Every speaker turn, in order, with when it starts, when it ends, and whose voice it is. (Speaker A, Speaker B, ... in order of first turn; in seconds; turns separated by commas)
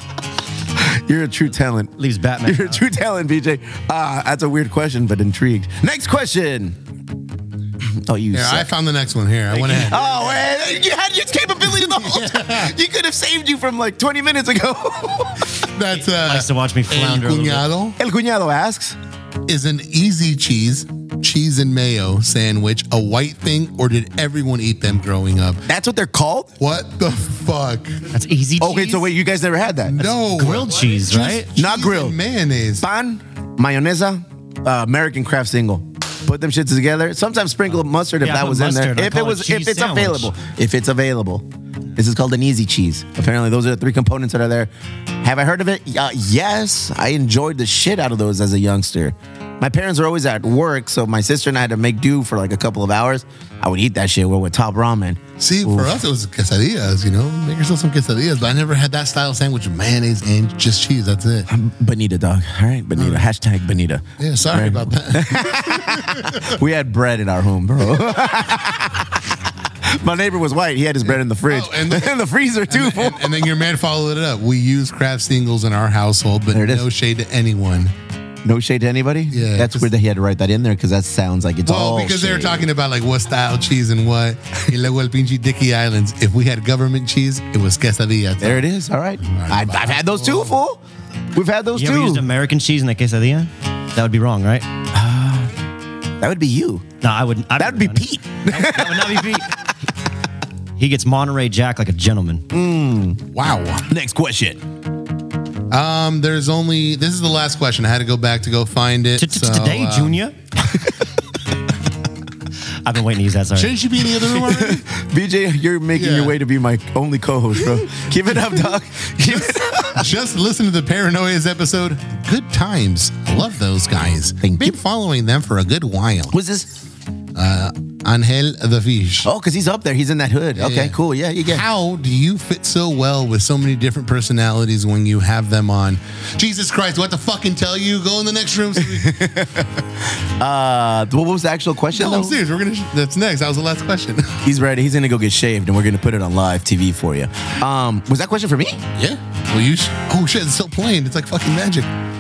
Speaker A: 0.8-1.9, Speaker B: 2.0-2.8, Speaker A: 2.4-6.8, Speaker A: 8.1-8.7, Speaker C: 8.3-10.1, Speaker B: 9.5-10.5, Speaker A: 9.8-15.5, Speaker C: 11.6-12.8, Speaker C: 15.7-18.0, Speaker B: 16.0-17.7, Speaker A: 18.0-19.0, Speaker C: 19.5-25.6, Speaker A: 25.7-26.5, Speaker C: 26.6-28.0, Speaker B: 28.1-29.1, Speaker A: 28.6-30.1, Speaker C: 29.9-32.9, Speaker B: 30.4-31.5, Speaker A: 31.6-32.2, Speaker A: 32.8-44.7, Speaker B: 38.2-40.3, Speaker A: 45.2-56.0, Speaker C: 55.4-61.5, Speaker A: 61.5-69.3, Speaker C: 62.9-63.3, Speaker C: 64.2-66.6, Speaker A: 69.8-73.4, Speaker C: 71.0-77.9, Speaker A: 76.5-76.9, Speaker A: 78.4-82.7, Speaker C: 79.3-79.9, Speaker C: 81.7-88.7, Speaker A: 88.4-90.8, Speaker C: 89.2-90.6, Speaker A: 91.3-92.2, Speaker B: 91.8-94.7, Speaker A: 94.9-95.5, Speaker A: 96.2-96.9, Speaker B: 97.0-99.5, Speaker A: 97.6-99.3, Speaker B: 100.8-102.5, Speaker A: 102.5-103.2, Speaker C: 103.3-103.9, Speaker A: 103.9-104.6, Speaker C: 105.7-110.2, Speaker B: 109.2-110.3, Speaker B: 112.8-113.8, Speaker C: 113.5-114.8, Speaker A: 114.3-120.1, Speaker C: 116.0-116.4, Speaker C: 117.6-118.7, Speaker C: 119.2-126.3, Speaker A: 124.4-124.8, Speaker A: 126.3-126.8, Speaker C: 127.3-129.3, Speaker A: 129.2-131.7, Speaker C: 130.6-139.2, Speaker A: 138.9-139.7, Speaker A: 140.4-142.4, Speaker C: 141.9-144.4, Speaker A: 144.4-148.8, Speaker C: 148.9-151.9